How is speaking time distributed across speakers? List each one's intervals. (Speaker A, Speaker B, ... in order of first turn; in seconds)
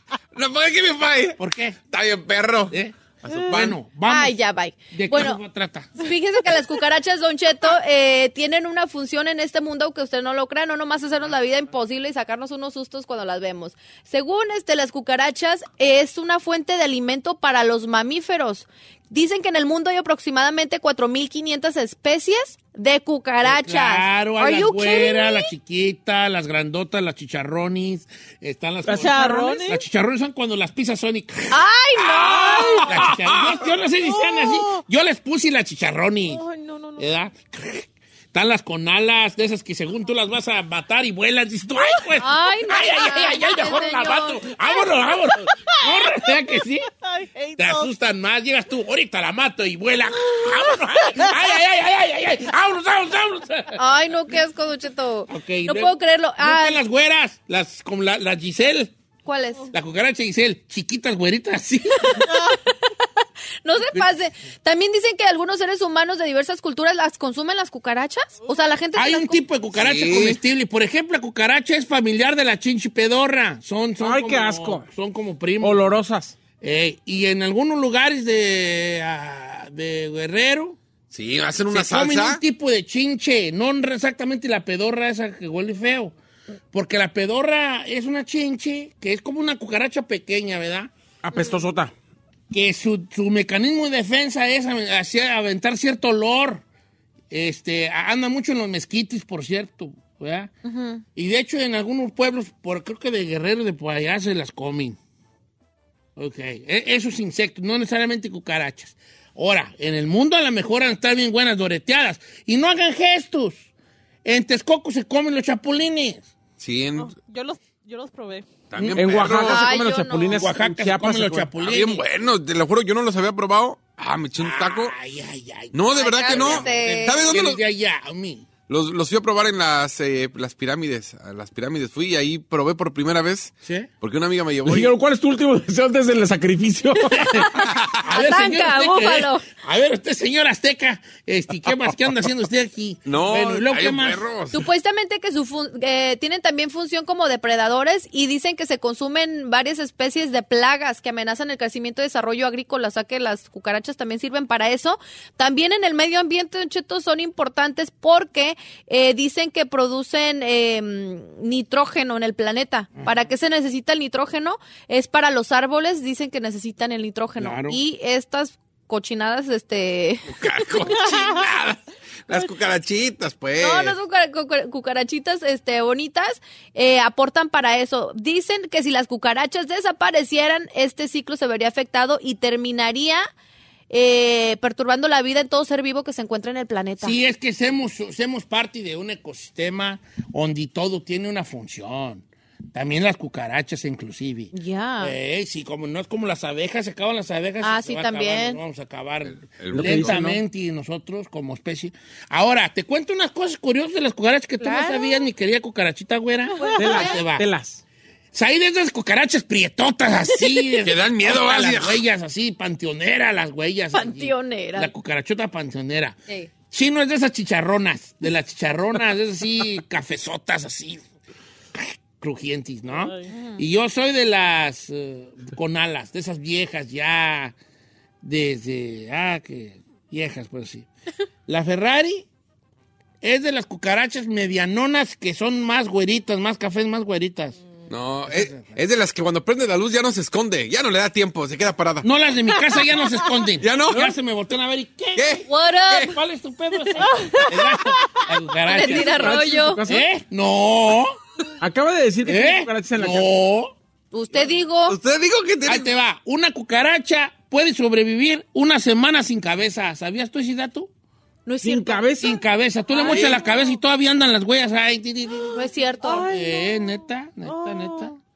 Speaker A: 0.3-1.4, 1.9-3.8, 69.7-70.4, 81.1-82.4, 116.6-117.1, 118.7-119.8, 121.6-125.0, 125.7-127.6, 128.7-134.9, 137.6-137.9, 143.1-144.6, 170.3-174.0, 199.2-200.4, 210.8-212.0, 237.9-242.1, 243.6-244.1, 245.2-245.4, 254.9-255.9, 263.0-263.4
Speaker B: 1.4-1.8, 3.5-4.3, 4.9-6.0, 23.4-36.4, 37.0-46.9, 47.6-53.8, 55.3-58.9, 59.7-62.2, 69.0-75.8, 76.6-80.8, 81.7-86.1, 86.7-90.9, 92.5-96.6, 97.3-100.5, 101.1-105.0, 106.2-113.7, 114.2-116.3, 120.3-122.0, 124.4-128.4, 137.2-144.2, 167.4-167.8, 187.0-207.4, 208.3-216.2, 216.7-221.0, 221.7-227.5, 228.2-230.9, 231.5-232.2, 233.2-237.6, 238.2-238.7, 242.0-251.2, 252.2-253.7, 255.7-260.9, 262.2-268.1
Speaker C: 4.1-5.4, 6.0-25.5, 31.5-33.0, 42.2-44.8, 53.8-56.8, 59.2-59.7, 62.1-62.7, 63.6-69.4, 100.6-101.0, 119.3-120.5, 125.9-127.3, 138.1-139.4, 144.5-170.3, 173.6-183.3, 183.9-187.2, 194.5-195.1, 197.6-198.6, 204.6-205.2, 206.6-207.2, 213.9-214.9, 223.3-223.6, 245.4-246.2, 248.6-249.8, 254.1-255.0, 261.4-262.1, 262.9-263.2, 265.5-266.2
Speaker D: 28.9-29.7, 74.0-74.8, 75.6-76.3, 91.2-91.9, 118.9-121.5, 134.7-137.4, 199.7-200.2, 206.8-207.8, 248.7-250.0, 251.6-253.3, 261.6-262.4
Speaker E: 28.9-29.8, 34.0-34.8, 36.3-37.1, 45.5-47.9, 50.2-51.4, 62.3-62.5, 117.0-118.5, 170.8-171.4, 222.9-223.2, 247.0-248.2, 262.9-263.7, 265.4-268.2